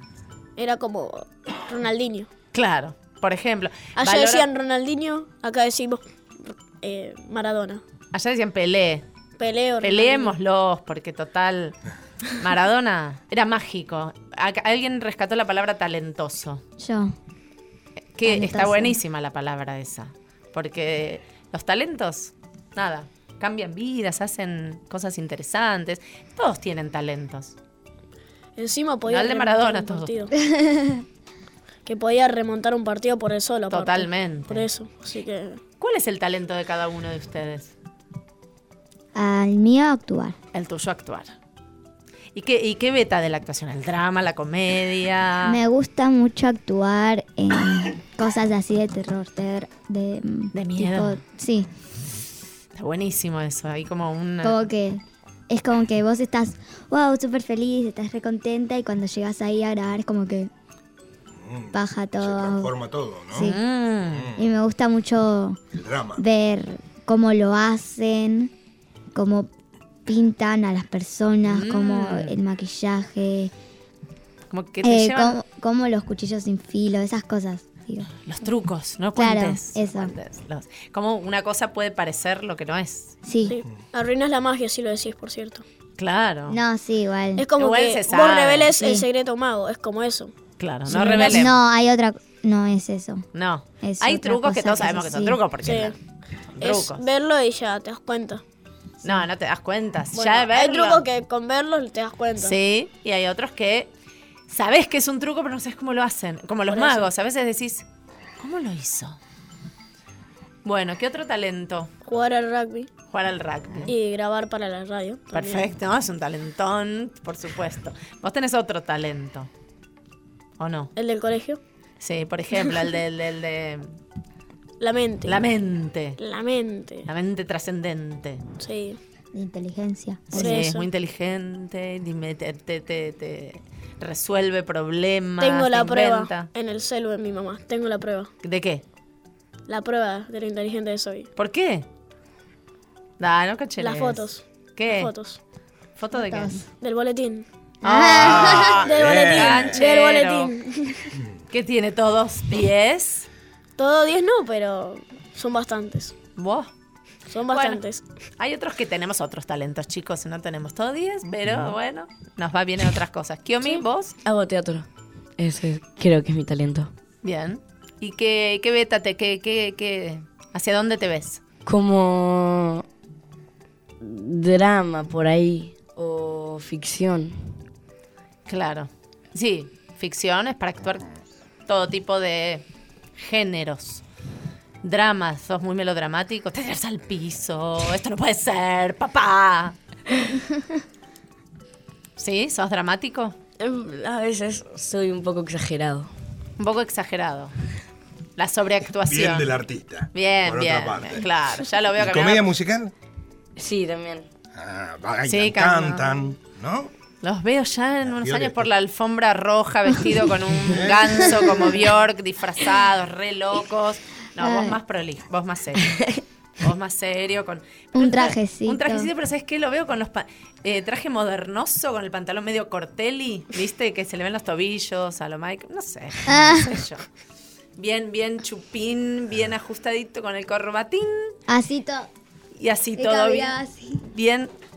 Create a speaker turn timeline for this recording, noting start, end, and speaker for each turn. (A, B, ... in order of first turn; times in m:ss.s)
0:00.6-0:02.3 A
0:02.5-0:04.5 B
0:04.0-0:07.8 A
0:08.1-0:09.0 B
0:09.4-0:10.4 A
0:09.8-0:11.8 B
0:12.4-0:16.6 B
0:16.8-0:17.2 C
0:18.1-0:27.6 B
0:18.2-0:19.0 C
0:28.6-0:30.4 A
0:29.1-0:30.1 B
0:30.5-0:31.0 C
0:31.9-0:35.6 A
0:33.7-0:34.7 B
0:35.8-0:37.7 B
0:39.2-0:40.4 C
0:40.5-0:41.4 B
0:42.4-0:45.6 B
0:45.4-0:51.7 C
0:50.5-0:51.2 B
0:52.8-0:54.6 B
0:54.4-1:00.5 C
1:01.4-1:03.5 D
1:01.7-1:02.7 C
1:03.3-1:03.6 C
1:03.3-1:04.3 B
1:04.1-1:04.4 D
1:04.4-1:05.6 C
1:05.7-1:06.2 D
1:06.2-1:08.5 C
1:09.1-1:09.5 C
1:10.1-1:13.5 C
1:11.5-1:12.4 B
1:14.5-1:15.4 B
1:14.8-1:18.1 C
1:18.2-1:23.2 B
1:19.2-1:20.1 C
1:23.2-1:23.6 C
1:23.5-1:25.6 A
1:26.0-1:26.6 B
1:26.5-1:27.5 C
1:27.4-1:30.3 A
1:27.6-1:28.7 B
1:28.8-1:29.1 C
1:30.6-1:31.6 B
1:30.9-1:33.3 C
1:33.3-1:35.9 B
1:33.8-1:35.4 C
1:35.6-1:36.0 A
1:36.5-1:37.0 B
1:36.6-1:38.4 A
1:39.0-1:41.0 B
1:40.1-1:42.6 A
1:42.4-1:43.9 B
1:44.5-1:47.8 B
1:46.7-1:47.1 A
1:48.4-1:49.2 B
1:50.6-1:51.9 B
1:52.0-1:52.9 A
1:53.1-1:53.9 B
1:53.9-1:55.7 A
1:55.3-1:59.5 B
2:00.6-2:00.9 B
2:01.0-2:01.6 A
2:02.0-2:03.9 B
2:04.8-2:05.4 A
2:05.2-2:06.2 B
2:06.2-2:07.1 A
2:07.1-2:08.4 B
2:08.6-2:09.0 A
2:09.3-2:10.7 C
2:10.3-2:16.5 B
2:10.4-2:10.9 A
2:15.4-2:18.3 A
2:18.4-2:18.8 B
2:19.7-2:21.3 A
2:21.4-2:21.9 B
2:23.2-2:25.1 B
2:23.8-2:25.4 A
2:26.0-2:26.6 B
2:26.1-2:26.6 C
2:26.8-2:27.5 A
2:27.8-2:30.5 B
2:27.8-2:28.7 C
2:28.1-2:29.8 D
2:28.9-2:31.1 A
2:31.5-2:33.3 B
2:33.8-2:36.2 A
2:36.4-2:36.7 B
2:37.3-2:38.0 A
2:37.5-2:37.8 B
2:38.4-2:44.2 B
2:41.4-2:41.7 D
2:44.2-2:46.9 E
2:47.2-2:51.4 B
2:51.6-2:52.9 E
2:54.0-2:57.5 E
2:58.5-3:01.1 B
3:01.7-3:02.6 B
3:03.2-3:04.0 B
3:04.8-3:09.8 B
3:12.2-3:13.4 B
3:13.6-3:16.1 E
3:16.6-3:17.6 B
3:18.4-3:19.5 B
3:19.1-3:21.3 D
3:20.1-3:22.5 B
3:22.0-3:22.9 D
3:23.6-3:24.3 E
3:24.5-3:26.9 D
3:25.2-3:26.1 B
3:27.2-3:36.0 B
3:28.1-3:28.7 D
3:30.7-3:31.6 D
3:34.4-3:34.8 C
3:36.6-3:47.0 B
3:37.9-3:39.1 C
3:46.3-3:46.8 C
3:47.8-3:51.4 B
3:51.5-3:52.1 C
3:52.6-3:53.6 B
3:53.0-3:54.0 C
3:54.1-3:54.5 B